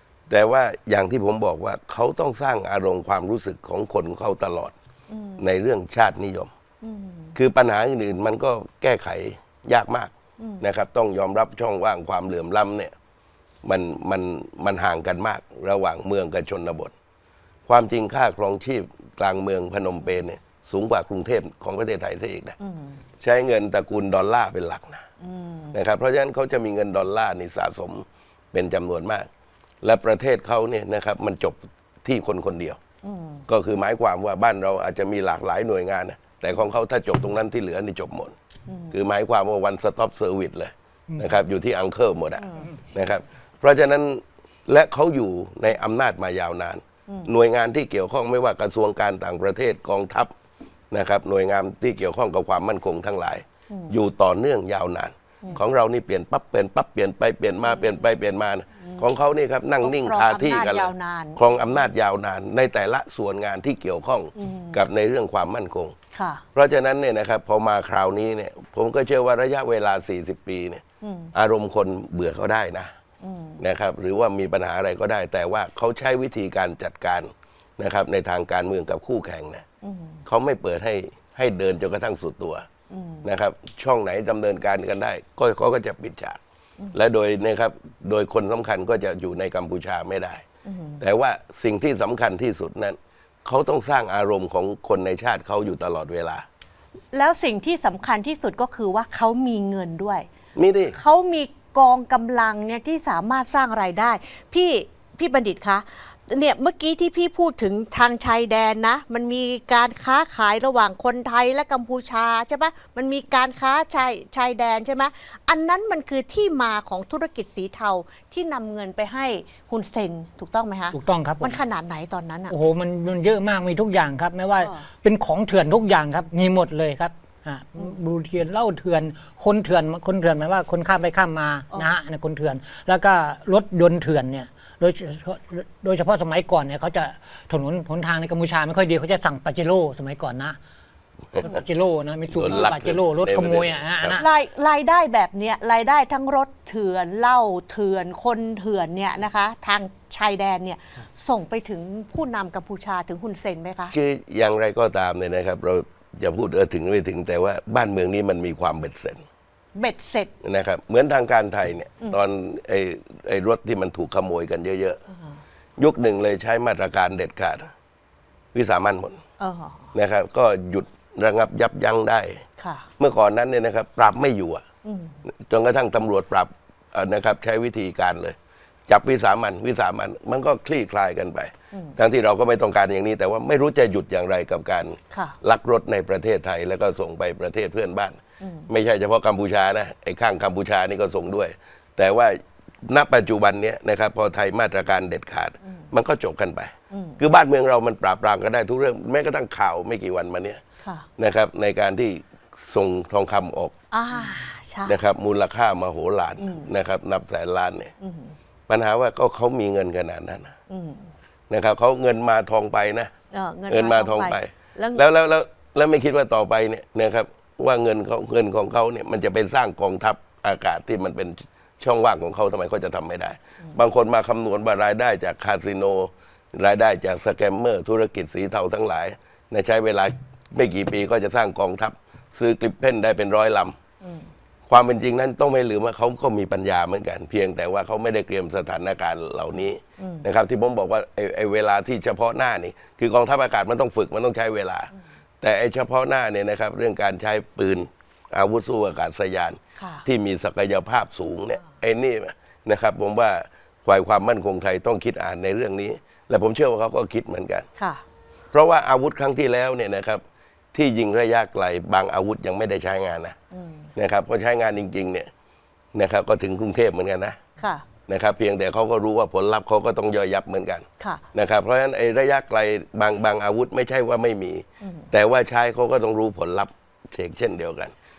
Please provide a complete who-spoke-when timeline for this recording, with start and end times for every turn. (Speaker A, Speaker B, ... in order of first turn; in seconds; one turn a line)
Speaker A: 0.3-4.7
Speaker B: 5.1-5.4
Speaker A: 5.4-6.5
Speaker B: 6.8-7.3
Speaker A: 7.3-12.9
Speaker B: 10.4-10.6
Speaker A: 13.6-16.9
Speaker A: 17.7-22.6
Speaker B: 22.6-23.0
Speaker A: 23.2-25.0
Speaker B: 25.2-25.7
Speaker A: 25.7-29.3
Speaker A: 29.8-32.8
Speaker B: 33.0-33.5
Speaker A: 33.5-38.3
Speaker B: 38.7-39.0
Speaker A: 38.9-50.3
Speaker A: 50.9-65.9
Speaker B: 57.7-58.0
Speaker B: 58.8-59.0
Speaker B: 59.8-61.8
Speaker B: 64.3-64.8
Speaker B: 66.1-66.4
Speaker A: 66.5-70.8
Speaker B: 71.0-71.3
Speaker A: 71.3-72.9
Speaker B: 73.2-73.6
Speaker A: 73.6-79.6
Speaker B: 79.8-80.2
Speaker A: 80.2-82.7
Speaker B: 82.9-83.2
Speaker A: 83.2-86.4
Speaker A: 86.9-90.4
Speaker B: 90.6-91.0
Speaker A: 91.0-96.4
Speaker B: 97.1-100.3
Speaker A: 100.5-101.0
Speaker B: 100.9-122.5
Speaker C: 120.9-121.6
Speaker C: 122.5-140.6
Speaker B: 124.6-124.8
Speaker C: 141.4-144.3
Speaker A: 142.3-144.2
Speaker B: 144.1-153.9
Speaker A: 153.9-159.2
Speaker B: 159.7-160.3
Speaker A: 160.4-165.0
Speaker B: 165.1-165.4
Speaker A: 165.8-167.7
Speaker A: 168.5-169.2
Speaker B: 169.4-169.9
Speaker A: 169.9-172.4
Speaker B: 172.6-172.9
Speaker A: 173.0-174.6
Speaker B: 174.8-175.2
Speaker A: 175.2-178.3
Speaker A: 178.9-200.6
Speaker B: 181.7-182.0
Speaker B: 185.1-185.4
Speaker B: 188.4-188.7
Speaker B: 196.9-197.2
Speaker B: 200.8-201.1
Speaker A: 201.2-203.7
Speaker B: 203.9-204.9
Speaker A: 204.8-207.9
Speaker B: 206.4-206.7
Speaker B: 208.0-208.3
Speaker A: 208.7-210.5
Speaker B: 210.7-211.1
Speaker A: 211.5-213.1
Speaker B: 213.3-215.0
Speaker A: 213.7-233.8
Speaker B: 234.0-234.3
Speaker A: 234.7-257.6
Speaker B: 240.0-240.2
Speaker B: 249.8-250.1
Speaker B: 257.8-258.0
Speaker A: 258.5-260.2
Speaker A: 260.7-263.3
Speaker B: 263.5-263.9
Speaker A: 263.9-265.3
Speaker A: 265.9-267.4
Speaker B: 267.6-267.9
Speaker A: 268.1-277.9
Speaker B: 271.0-271.2
Speaker B: 274.8-275.1